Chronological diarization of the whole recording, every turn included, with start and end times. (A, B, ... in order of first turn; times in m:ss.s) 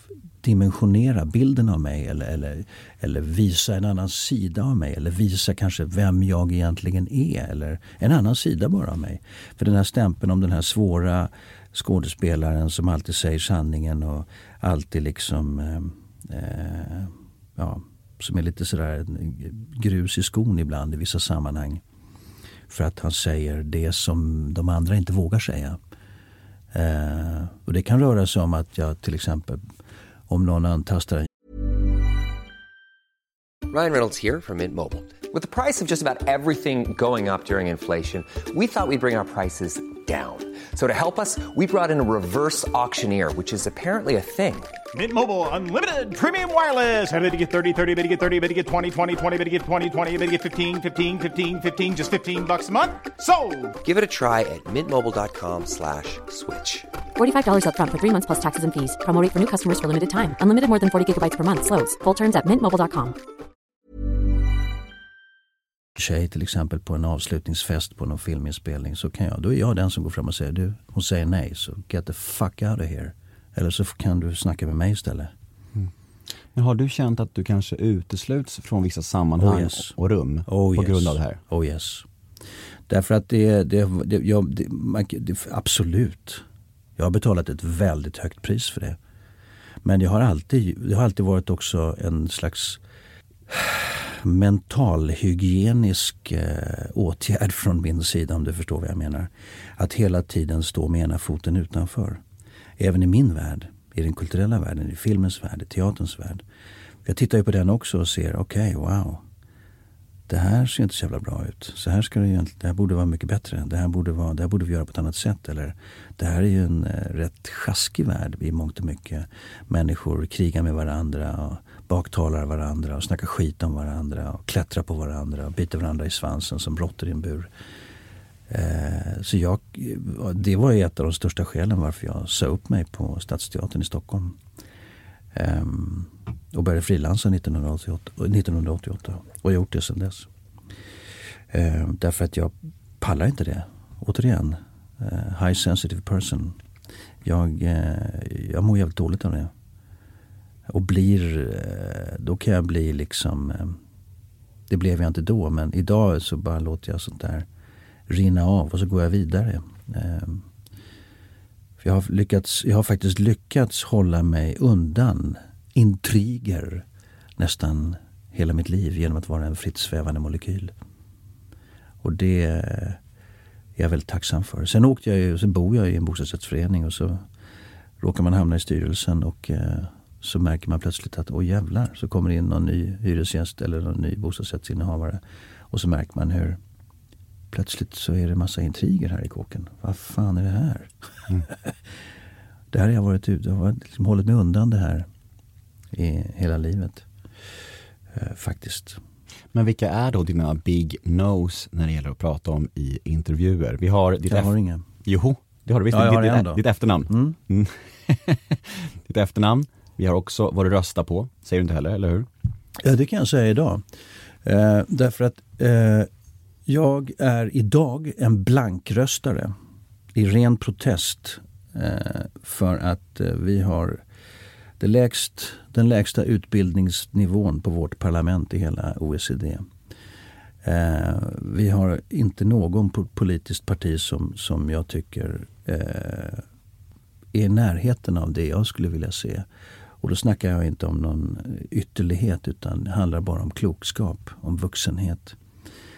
0:00.4-0:21.8 A
0:22.7-0:25.8 A
0:26.7-0:29.6 A
0:30.3-0:31.3 A
0:33.7-0:44.8 B
0:44.9-0:53.7 C
0:53.8-0:56.9 B
0:57.2-1:03.2 D
1:06.0-1:15.3 A
1:16.5-1:21.4 E
1:19.4-1:19.9 A
1:20.5-1:22.0 A
1:22.9-1:26.4 A
1:27.0-1:29.0 A
1:29.8-1:32.8 A
1:33.5-1:42.2 A
1:42.8-1:46.4 A
1:47.0-1:49.2 A
1:50.3-2:07.5 A
2:08.5-2:14.4 A
2:15.3-2:20.3 A
2:21.5-2:26.6 A
2:27.2-2:29.5 A
2:30.7-2:33.8 A
2:34.7-2:37.5 A
2:38.1-2:40.4 A
2:41.8-2:46.8 A
2:47.4-2:50.7 A
2:52.0-2:53.0 A
2:53.8-2:57.2 A
2:58.0-3:06.6 A
3:07.5-3:10.9 A
3:11.5-3:11.7 A
3:12.7-3:15.1 A
3:15.9-3:17.0 A
3:18.1-3:19.0 A
3:19.5-3:24.5 E
3:24.3-3:24.8 A
3:25.0-3:32.3 E
3:25.9-3:27.4 A
3:32.8-3:33.8 A
3:34.4-3:36.1 A
3:36.7-3:39.5 A
3:40.1-3:44.0 A
3:44.8-3:49.7 A
3:50.6-3:56.4 A
3:57.3-3:59.4 A
4:00.0-4:05.4 A